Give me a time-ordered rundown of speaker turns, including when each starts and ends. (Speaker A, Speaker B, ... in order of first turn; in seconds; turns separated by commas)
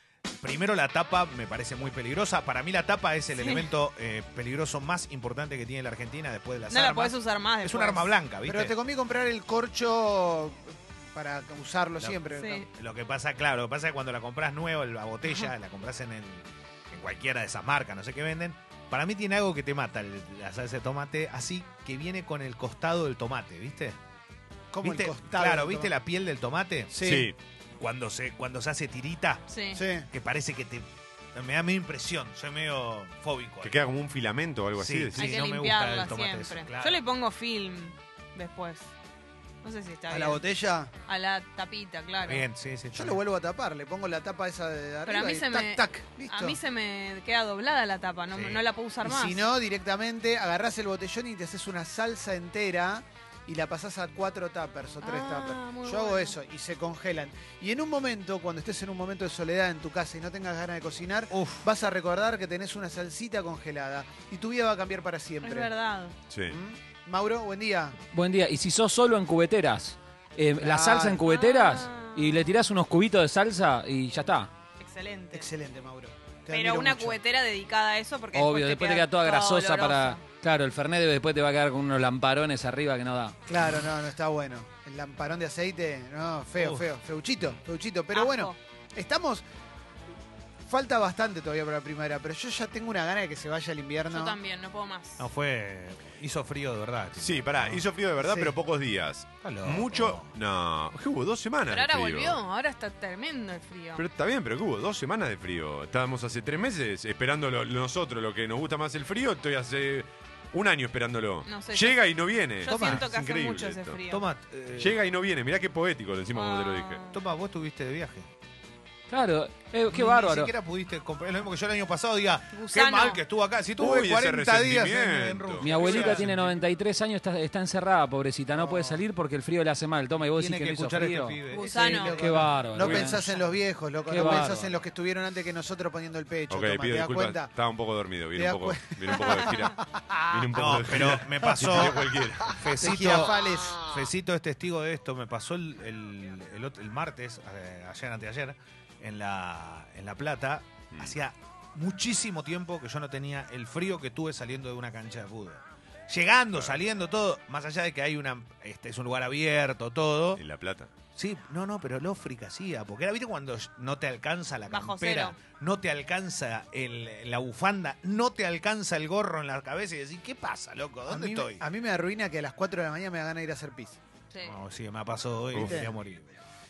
Speaker A: 0.4-8.8, Speaker B: 3.4-3.7, Speaker B: 6.7-8.1, Speaker C: 8.4-12.7, Speaker B: 12.3-12.7, Speaker A: 12.7-24.0, Speaker C: 24.7-25.9, Speaker A: 24.8-26.9, Speaker C: 26.9-27.3, Speaker D: 27.0-27.4, Speaker A: 27.8-29.4, Speaker B: 29.5-29.9, Speaker C: 29.8-30.1, Speaker A: 30.1-33.8, Speaker D: 33.6-35.3, Speaker A: 34.8-37.0, Speaker B: 35.2-38.9, Speaker B: 39.6-40.4, Speaker C: 40.1-40.9, Speaker B: 41.1-42.5, Speaker A: 42.3-43.2, Speaker C: 42.9-46.6, Speaker B: 45.1-49.4, Speaker A: 48.3-48.6, Speaker C: 49.0-65.7, Speaker B: 55.0-56.4, Speaker A: 61.3-61.7, Speaker B: 65.4-66.2, Speaker D: 66.3-66.6, Speaker C: 66.5-68.0, Speaker E: 68.1-74.5, Speaker C: 70.6-71.2, Speaker B: 71.2-72.5, Speaker B: 74.8-75.5, Speaker C: 75.3-77.2, Speaker B: 76.5-80.2, Speaker E: 78.3-83.4, Speaker C: 83.5-89.4, Speaker A: 86.6-86.9, Speaker B: 88.1-88.6, Speaker C: 90.7-94.4, Speaker B: 94.1-95.3, Speaker A: 95.2-97.8, Speaker D: 97.2-102.4, Speaker C: 98.2-98.5, Speaker A: 99.4-100.3, Speaker B: 101.7-104.0, Speaker D: 104.0-114.0, Speaker B: 111.5-112.0, Speaker B: 112.6-114.2, Speaker A: 112.7-113.1, Speaker A: 114.1-115.0, Speaker D: 114.8-117.0, Speaker B: 116.3-117.2, Speaker A: 117.1-118.3, Speaker E: 119.1-120.5, Speaker A: 119.9-126.6, Speaker B: 122.5-123.2, Speaker D: 123.8-126.0, Speaker E: 125.6-131.4, Speaker C: 128.6-129.0, Speaker A: 130.3-132.3, Speaker B: 131.5-132.3, Speaker C: 131.6-137.5, Speaker E: 132.1-133.2, Speaker D: 132.8-133.2, Speaker E: 134.1-134.7, Speaker A: 134.2-134.5, Speaker D: 136.5-142.7, Speaker C: 138.3-140.6, Speaker A: 140.6-160.4, Speaker C: 141.7-141.9, Speaker C: 142.8-144.0, Speaker D: 156.5-156.8, Speaker D: 160.4-160.9, Speaker A: 161.2-171.6, Speaker B: 164.7-165.4, Speaker C: 171.1-174.0, Speaker B: 174.3-174.6, Speaker A: 174.4-176.3, Speaker D: 175.5-175.8, Speaker C: 175.6-175.9